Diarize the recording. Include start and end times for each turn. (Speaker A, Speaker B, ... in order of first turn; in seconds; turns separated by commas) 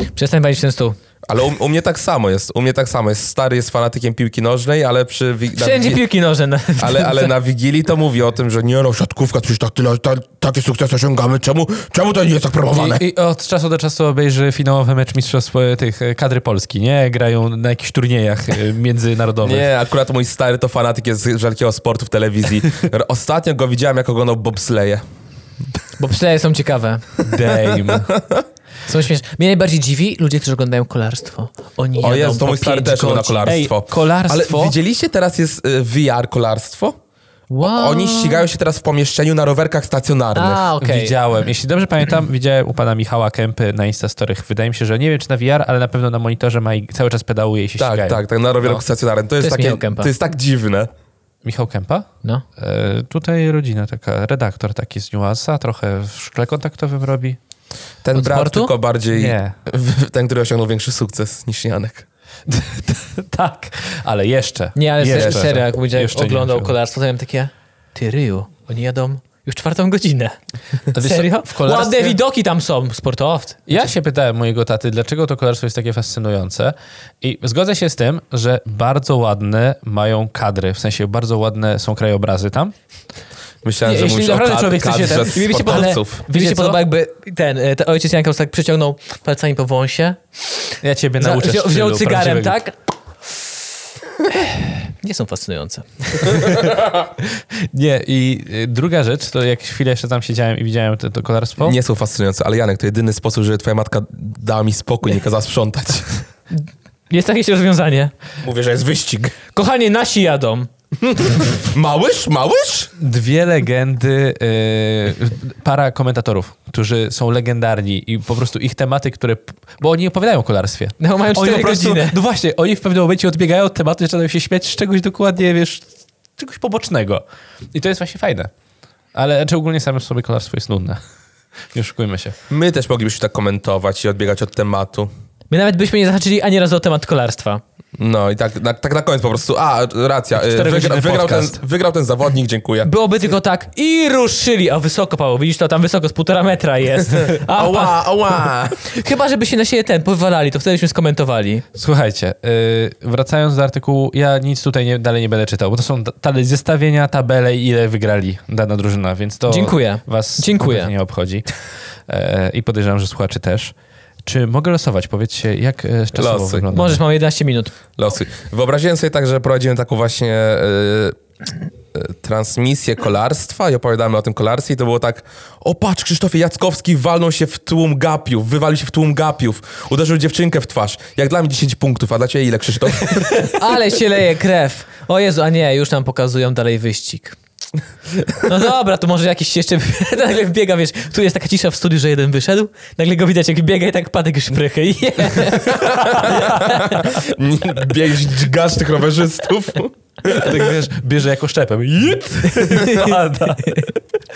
Speaker A: 0.1-1.0, Speaker B: 1.3-6.0, Speaker A: 5.5-7.3, Speaker B: 6.8-13.0, Speaker C: 12.7-19.7, Speaker B: 19.4-25.0, Speaker A: 26.0-27.1, Speaker C: 27.2-28.1, Speaker B: 27.4-28.4, Speaker A: 28.9-33.6, Speaker B: 32.0-37.0, Speaker C: 33.5-34.8, Speaker A: 37.5-38.4, Speaker B: 37.6-40.7, Speaker A: 40.3-41.1, Speaker C: 40.8-48.8, Speaker B: 47.8-50.9, Speaker A: 49.4-50.1, Speaker C: 51.4-57.4, Speaker B: 58.0-62.0, Speaker A: 58.1-58.7, Speaker C: 59.1-59.5, Speaker C: 62.5-66.7, Speaker A: 64.7-73.8, Speaker B: 65.1-65.4, Speaker C: 70.9-72.2, Speaker C: 73.7-82.7, Speaker B: 83.6-86.2, Speaker C: 83.8-86.8, Speaker A: 84.9-92.7, Speaker C: 90.8-92.6, Speaker A: 94.3-96.5, Speaker C: 96.2-101.8, Speaker B: 101.6-106.2, Speaker A: 106.5-108.1, Speaker B: 108.4-109.3, Speaker A: 109.5-110.7, Speaker B: 111.0-112.9, Speaker C: 113.0-128.5, Speaker A: 121.0-122.2, Speaker C: 129.1-131.0, Speaker C: 131.7-132.4, Speaker B: 132.5-135.1, Speaker A: 135.5-137.6, Speaker B: 138.0-142.9, Speaker C: 140.3-141.6, Speaker A: 142.8-148.0, Speaker B: 147.3-148.8, Speaker A: 148.8-151.6, Speaker C: 151.7-161.5, Speaker A: 159.5-160.9, Speaker C: 162.1-163.7, Speaker C: 164.2-167.0, Speaker B: 166.1-166.7, Speaker A: 166.7-167.7, Speaker B: 168.0-171.2, Speaker B: 171.9-183.7, Speaker A: 183.3-187.4, Speaker A: 188.4-197.2, Speaker B: 195.8-200.6, Speaker C: 200.2-203.9, Speaker A: 202.5-203.9